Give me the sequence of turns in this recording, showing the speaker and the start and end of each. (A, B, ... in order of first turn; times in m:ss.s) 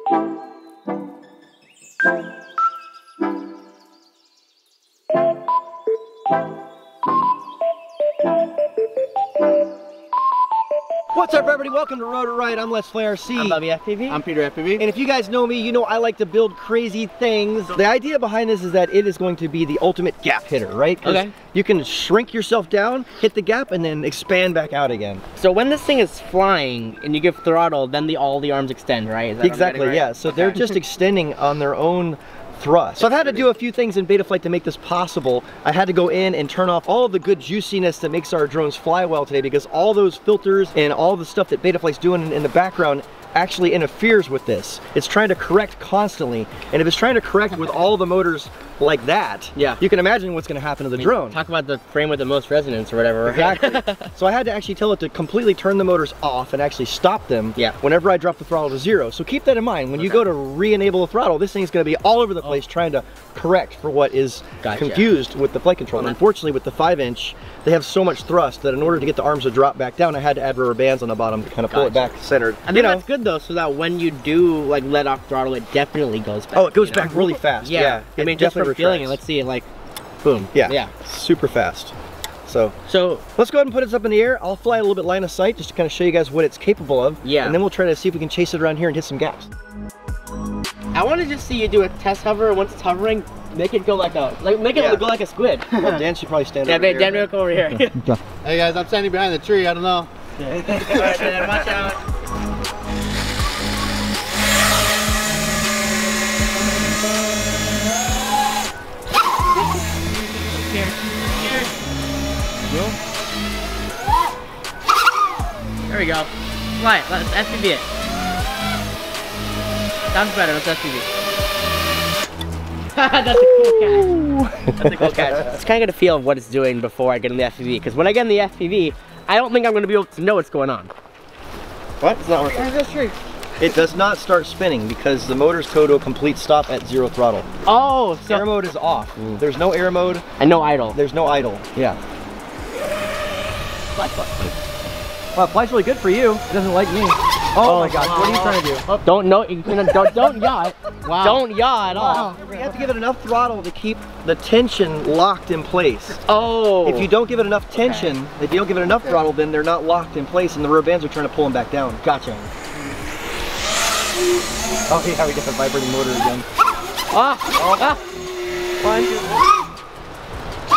0:11.1-0:13.6 A
0:13.3-0:14.2 B
0:14.1-0:14.8 C
0:14.8-0:25.2 A
0:21.0-0:21.3 B
0:25.4-0:30.8 B
0:29.4-0:51.4 A
0:33.0-0:33.5 B
0:49.6-0:49.8 B
0:51.0-0:54.1 B
0:53.2-1:13.1 A
1:00.0-1:00.3 B
1:04.6-1:05.1 B
1:11.7-1:12.1 B
1:12.6-1:19.7 B
1:16.5-1:19.2 A
1:20.2-1:20.9 B
1:20.5-1:21.9 A
1:22.5-1:22.8 A
1:22.9-1:23.2 B
1:23.4-1:29.5 A
1:27.2-1:27.6 B
1:30.9-1:35.7 B
1:34.7-1:35.1 A
1:35.7-1:37.3 A
1:35.8-1:36.0 C
1:36.6-1:38.2 B
1:38.4-1:40.1 C
1:40.4-1:42.0 B
1:40.7-1:41.5 C
1:50.3-1:51.7 B
1:52.7-1:53.0 A
1:55.9-1:57.8 B
2:00.1-2:01.1 B
2:03.0-2:04.2 B
2:03.9-2:05.6 A
2:04.8-2:10.9 B
2:12.0-2:12.7 B
2:12.5-2:13.2 C
2:13.6-2:17.5 A
2:17.6-2:18.5 B
2:18.3-2:20.3 A
2:20.4-2:21.0 B
2:20.9-2:21.8 A
2:24.0-2:24.5 B
2:25.4-2:28.8 A
2:27.6-2:29.0 C
2:28.2-2:32.4 B
2:29.8-2:30.1 C
2:31.0-2:31.4 C
2:31.9-2:32.9 C
2:32.0-2:36.2 A
2:36.3-2:37.1 B
2:36.8-2:42.0 A
2:42.0-2:42.5 B
2:44.9-2:46.5 A
2:47.1-2:48.0 B
2:47.6-2:48.0 A
2:48.8-2:49.5 B